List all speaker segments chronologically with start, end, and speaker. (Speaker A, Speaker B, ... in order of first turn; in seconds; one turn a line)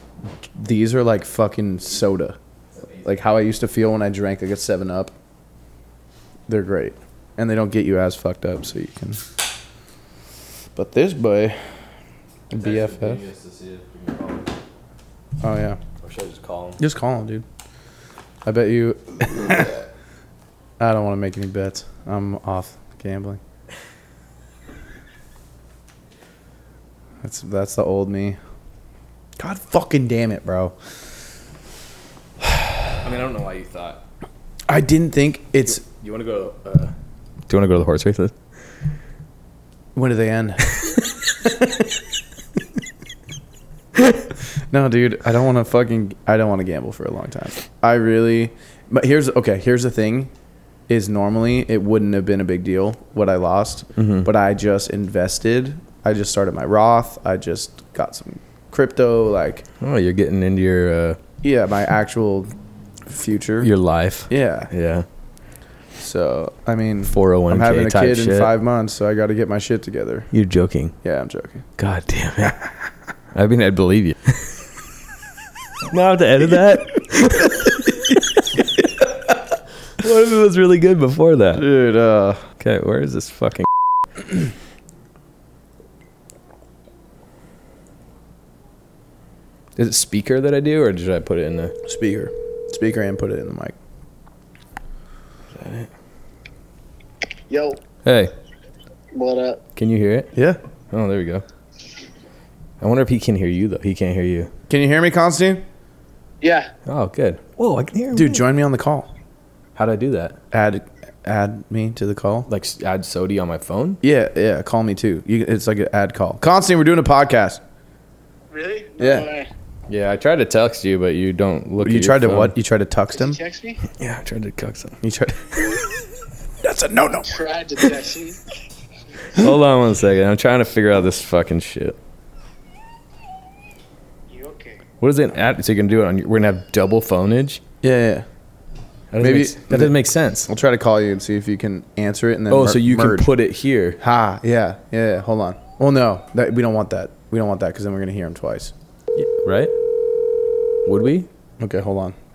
Speaker A: 0.6-2.4
Speaker A: 3.0-5.1
Speaker A: 6.5-9.2
Speaker A: 10.8-11.6
Speaker A: 12.5-13.2
Speaker B: 12.6-14.5
Speaker A: 15.4-15.8
Speaker B: 16.0-16.8
Speaker A: 16.8-17.4
Speaker A: 18.4-19.8
Speaker A: 20.8-23.4
Speaker A: 27.2-28.4
Speaker A: 29.4-30.8
Speaker B: 33.0-34.0
Speaker A: 34.7-35.9
Speaker B: 35.7-36.9
Speaker B: 37.5-38.3
Speaker A: 40.0-41.9
Speaker A: 44.7-50.3
Speaker A: 50.9-59.6
Speaker B: 54.0-54.3
Speaker B: 59.8-61.2
Speaker A: 61.4-62.5
Speaker A: 63.1-63.7
Speaker B: 63.6-65.1
Speaker A: 64.3-64.7
Speaker A: 66.0-70.3
Speaker B: 67.0-68.5
Speaker B: 70.3-71.0
Speaker A: 71.0-71.7
Speaker B: 71.8-72.6
Speaker B: 73.3-74.5
Speaker B: 75.9-78.6
Speaker B: 80.0-81.7
Speaker A: 81.6-82.4
Speaker B: 82.6-83.7
Speaker B: 89.8-91.8
Speaker A: 91.8-93.8
Speaker B: 95.6-95.9
Speaker C: 97.5-97.8
Speaker B: 98.0-98.3
Speaker C: 99.1-99.6
Speaker B: 99.8-100.3
Speaker A: 100.3-100.6
Speaker B: 100.9-101.5
Speaker B: 102.8-104.5
Speaker A: 104.7-105.6
Speaker C: 106.4-106.7
Speaker B: 106.9-108.4
Speaker A: 108.1-109.1
Speaker B: 109.8-110.4
Speaker A: 110.5-112.5
Speaker B: 112.5-114.0
Speaker A: 114.0-117.6
Speaker C: 118.5-119.5
Speaker A: 119.0-119.3
Speaker B: 119.9-122.5
Speaker A: 121.8-123.4
Speaker C: 123.1-123.8
Speaker B: 123.9-125.0
Speaker A: 125.0-125.8
Speaker A: 126.6-127.4
Speaker C: 127.3-128.4
Speaker B: 129.3-132.0
Speaker C: 134.3-134.8
Speaker B: 135.0-137.6
Speaker A: 137.8-138.3
Speaker B: 139.1-140.5
Speaker A: 139.2-139.9
Speaker A: 140.5-143.3
Speaker B: 142.5-144.0
Speaker A: 144.0-148.7
Speaker B: 149.2-149.7
Speaker B: 150.8-151.3
Speaker A: 151.6-152.2